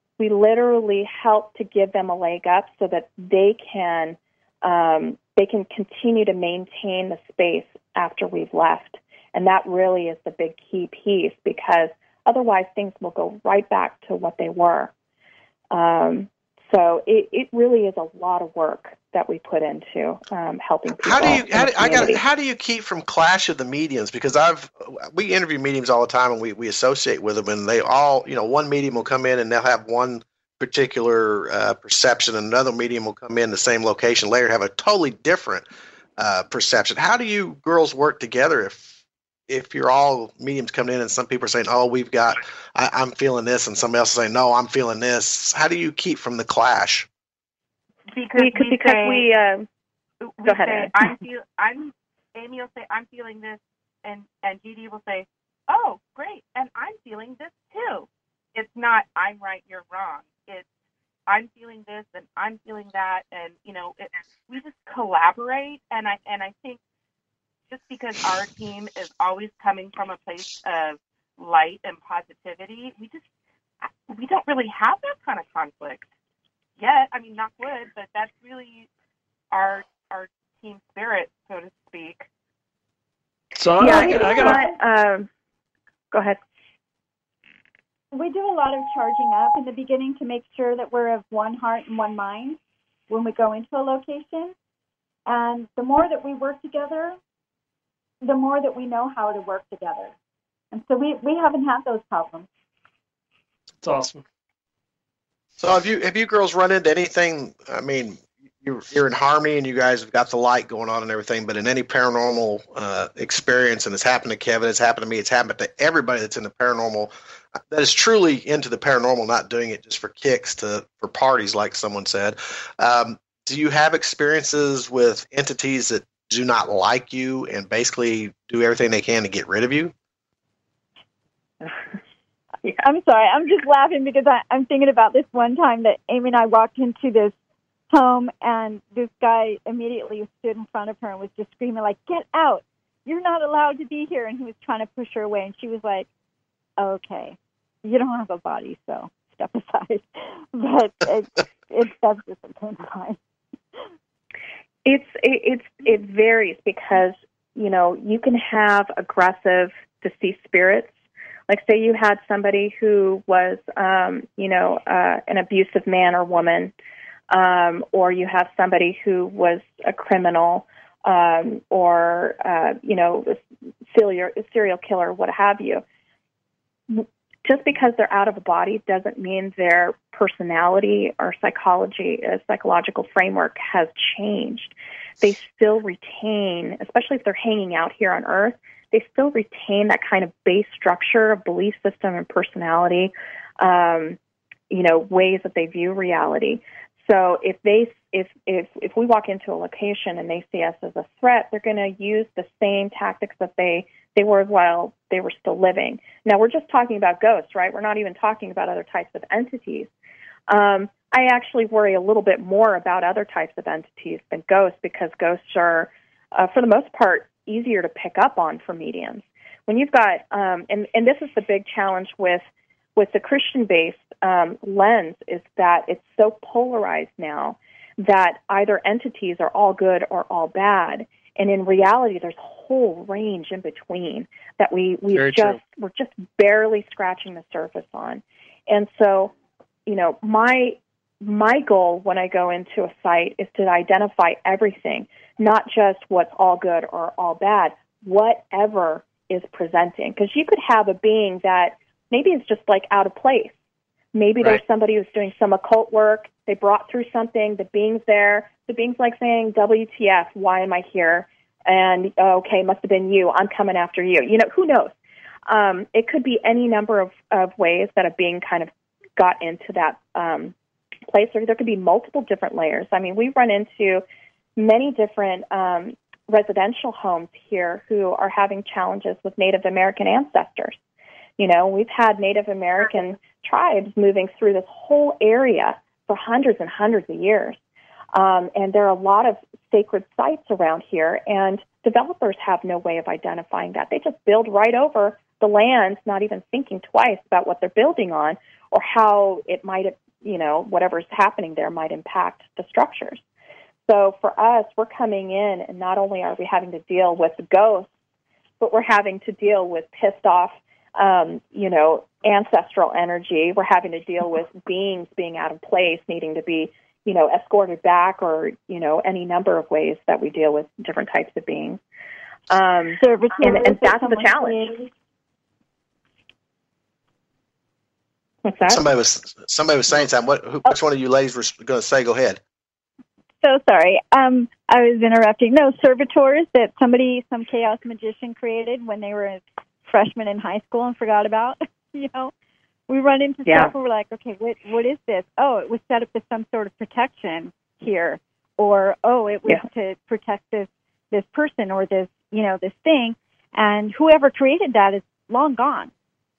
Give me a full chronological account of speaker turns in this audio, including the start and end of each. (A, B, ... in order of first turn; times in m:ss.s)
0:00.2-0:14.9 A
0:15.7-0:22.2 A
0:21.0-0:35.7 B
0:36.2-0:38.9 B
0:39.5-0:47.1 B
0:48.1-0:49.3 C
0:48.4-0:49.7 A
0:50.2-1:00.7 C
0:50.4-0:51.1 A
1:01.3-1:06.8 C
1:07.7-1:13.2 C
1:13.8-1:16.1 C
1:16.8-1:18.9 C
1:19.5-1:22.2 C
1:23.6-1:24.6 D
1:23.8-1:25.3 A
1:26.1-1:26.4 A
1:28.1-1:34.5 E
1:35.3-1:37.2 E
1:38.2-1:40.1 E
1:40.7-1:42.5 E
1:43.8-1:44.2 D
1:45.6-2:09.9 B
2:12.8-2:17.4 E
2:17.9-2:26.1 E
2:26.8-2:33.2 E
2:34.8-2:40.9 A
2:41.5-2:46.7 A
2:47.3-2:55.8 A
2:56.9-3:14.2 A
3:14.7-3:29.9 A
3:30.5-3:42.4 A
3:43.0-3:59.3 A
3:55.1-3:55.6 D
3:59.9-4:13.6 A
4:14.1-4:24.9 A
4:25.5-4:30.6 A
4:31.1-4:34.0 A
4:34.6-4:40.8 A
4:41.4-4:47.6 A
4:48.1-5:03.2 A
5:03.9-5:07.9 A
5:08.6-5:21.8 A
5:22.5-5:24.7 A
5:23.0-5:24.9 E
5:28.4-5:28.8 A
5:28.7-5:32.4 B
5:33.4-5:42.3 E
5:42.9-5:55.9 E
5:43.5-5:43.7 A